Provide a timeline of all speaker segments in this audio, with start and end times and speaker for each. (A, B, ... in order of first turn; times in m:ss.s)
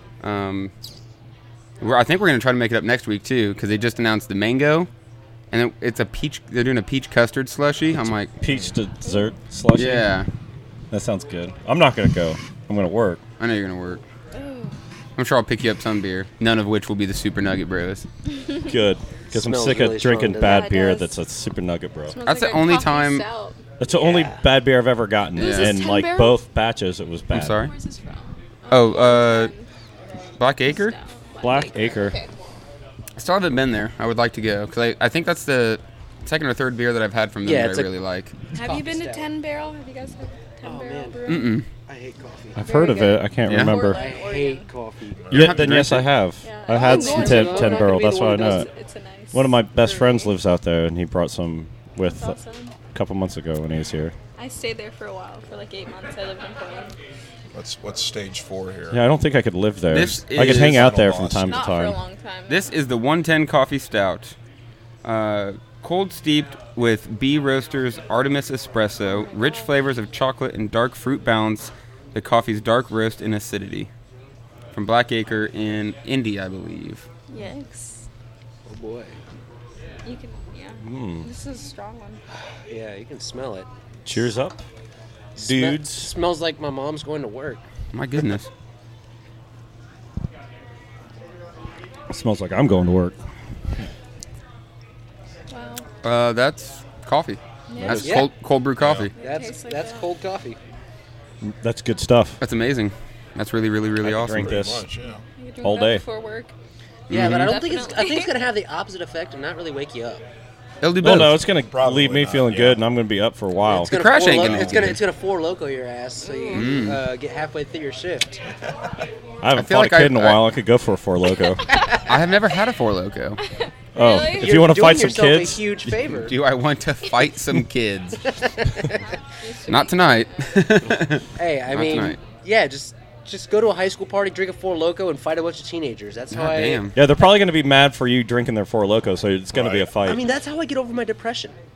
0:00.2-0:00.7 A
0:01.8-0:04.9 A
0:05.5-0:08.3 A
0:08.4-0:10.1 B
0:09.7-0:10.3 A
0:10.9-0:13.2 B
0:13.4-0:14.0 A
0:14.4-0:14.7 C
0:15.2-0:18.1 A
0:18.7-0:22.2 B
0:19.3-0:20.8 D
0:20.4-0:21.1 C
0:22.1-0:23.6 C
0:22.2-0:23.2 A
0:23.8-0:27.6 B
0:24.0-0:24.4 D
0:25.4-0:25.8 A
0:25.4-0:26.4 C
0:27.3-0:27.7 A
0:27.6-0:29.7 C
0:28.7-0:29.5 A
0:30.4-0:31.0 A
0:30.7-0:32.3 C
0:31.4-0:32.2 B
0:33.2-0:38.4 A
0:37.4-0:37.9 D
0:38.5-0:41.6 C
0:38.6-0:39.3 D
0:40.6-0:42.7 D
0:41.3-0:41.7 A
0:42.6-0:44.0 B
0:42.6-0:44.7 C
0:43.5-0:43.8 A
0:43.8-0:45.2 D
0:45.2-0:45.9 E
0:45.3-0:46.1 A
0:45.3-0:48.7 B
0:46.4-0:50.3 C
0:46.8-0:48.7 D
0:49.3-0:52.4 B
0:52.0-0:52.7 C
0:52.9-0:54.2 B
0:54.4-0:56.9 C
0:57.5-0:59.0 E
0:58.9-1:02.0 B
0:59.9-1:00.9 A
1:00.3-1:01.8 E
1:01.5-1:02.8 C
1:02.5-1:04.3 A
1:05.0-1:13.9 A
1:09.1-1:09.7 C
1:14.7-1:17.0 A
1:17.3-1:18.1 C
1:18.7-1:19.2 D
1:20.0-1:22.2 C
1:20.8-1:21.3 B
1:22.7-1:23.7 D
1:24.1-1:24.6 B
1:25.4-1:27.6 D
1:25.4-1:26.1 B
1:27.9-1:28.5 A
1:32.1-1:33.2 B
1:35.5-1:35.8 C
1:36.0-1:39.1 A
1:37.7-1:38.2 C
1:37.8-1:38.1 B
1:38.0-1:38.3 D
1:38.8-1:39.1 E
1:39.2-1:40.1 C
1:39.2-1:40.6 D
1:41.4-1:42.4 B
1:42.4-1:44.6 A
1:44.0-1:44.8 B
1:44.3-1:45.2 E
1:45.4-1:46.5 C
1:45.6-1:46.0 B
1:47.1-1:47.6 A
1:47.1-1:50.2 D
1:47.2-1:48.3 C
1:50.8-1:51.4 A
1:51.0-1:53.9 B
1:51.6-1:52.8 E
1:53.6-1:58.4 D
1:53.9-1:55.0 A
1:54.4-1:55.0 B
1:56.2-1:56.8 C
1:56.5-1:57.0 A
1:59.4-2:01.6 B
1:59.6-2:00.5 A
2:02.1-2:03.4 A
2:04.0-2:04.6 C
2:04.0-2:06.0 B
2:04.4-2:06.4 D
2:06.3-2:08.4 A
2:09.0-2:10.6 C
2:09.7-2:12.2 A
2:11.4-2:16.9 D
2:16.3-2:17.0 A
2:17.0-2:20.2 B
2:19.5-2:20.2 E
2:20.0-2:21.6 D